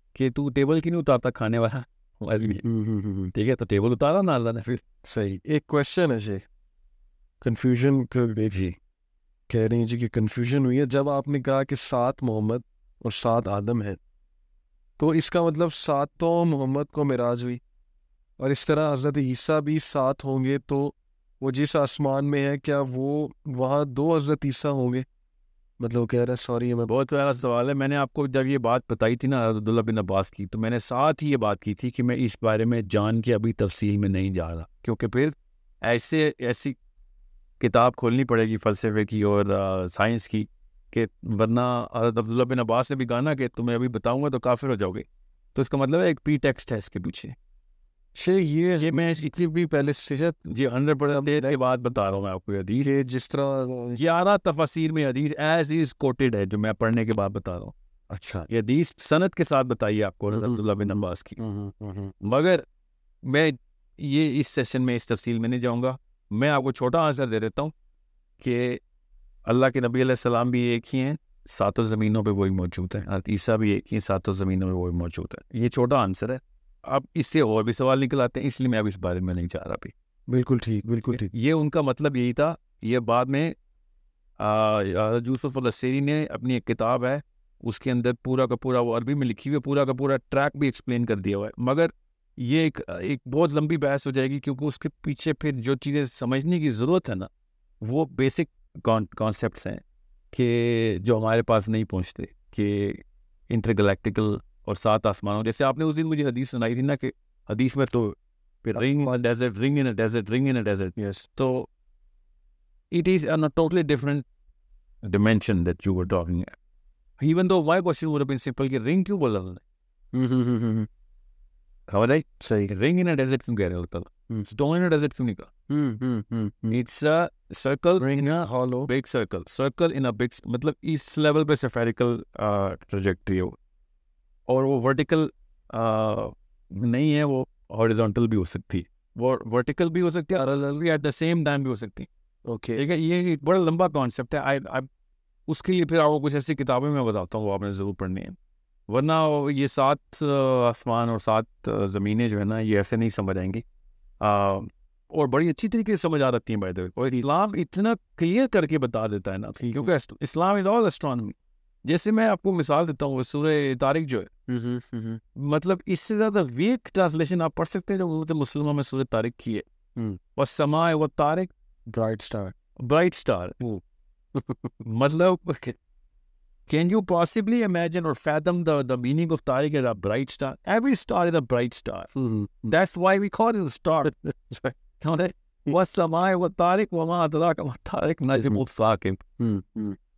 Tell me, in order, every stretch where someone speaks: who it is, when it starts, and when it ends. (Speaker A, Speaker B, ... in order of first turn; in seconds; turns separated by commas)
Speaker A: 0.1-2.7, Speaker B: 2.6-3.3, Speaker A: 3.3-4.8, Speaker B: 5.0-6.5, Speaker B: 7.4-8.7, Speaker B: 9.5-14.0, Speaker B: 15.0-17.6, Speaker B: 18.4-25.1, Speaker B: 25.8-26.9, Speaker A: 26.9-36.8, Speaker A: 37.6-47.4, Speaker B: 48.1-50.5, Speaker A: 48.8-49.4, Speaker A: 50.5-52.9, Speaker B: 52.8-54.0, Speaker A: 54.0-57.7, Speaker B: 58.1-58.5, Speaker A: 58.5-61.4, Speaker B: 60.3-62.1, Speaker A: 62.2-62.6, Speaker A: 63.2-67.7, Speaker A: 68.4-68.8, Speaker A: 69.5-79.9, Speaker B: 80.3-81.3, Speaker A: 81.1-83.5, Speaker A: 84.4-97.3, Speaker A: 97.8-111.7, Speaker B: 108.8-109.1, Speaker B: 111.0-111.3, Speaker A: 112.9-114.3, Speaker A: 115.0-116.5, Speaker A: 117.2-119.6, Speaker B: 120.1-120.9, Speaker A: 121.9-125.5, Speaker B: 122.4-122.7, Speaker B: 125.7-126.8, Speaker A: 126.7-133.6, Speaker B: 128.0-128.9, Speaker A: 134.5-142.1, Speaker B: 142.5-142.8, Speaker A: 142.8-144.9, Speaker A: 145.5-148.4, Speaker A: 148.9-153.6, Speaker A: 154.2-164.3, Speaker B: 159.6-159.9, Speaker B: 164.5-165.2, Speaker A: 165.3-169.7, Speaker A: 170.4-171.5, Speaker B: 171.9-172.5, Speaker A: 172.8-173.6, Speaker B: 174.3-174.7, Speaker A: 174.8-175.8, Speaker A: 176.7-182.1, Speaker B: 182.2-182.7, Speaker A: 182.7-184.1, Speaker B: 184.1-184.8, Speaker A: 185.0-189.2, Speaker B: 189.4-190.0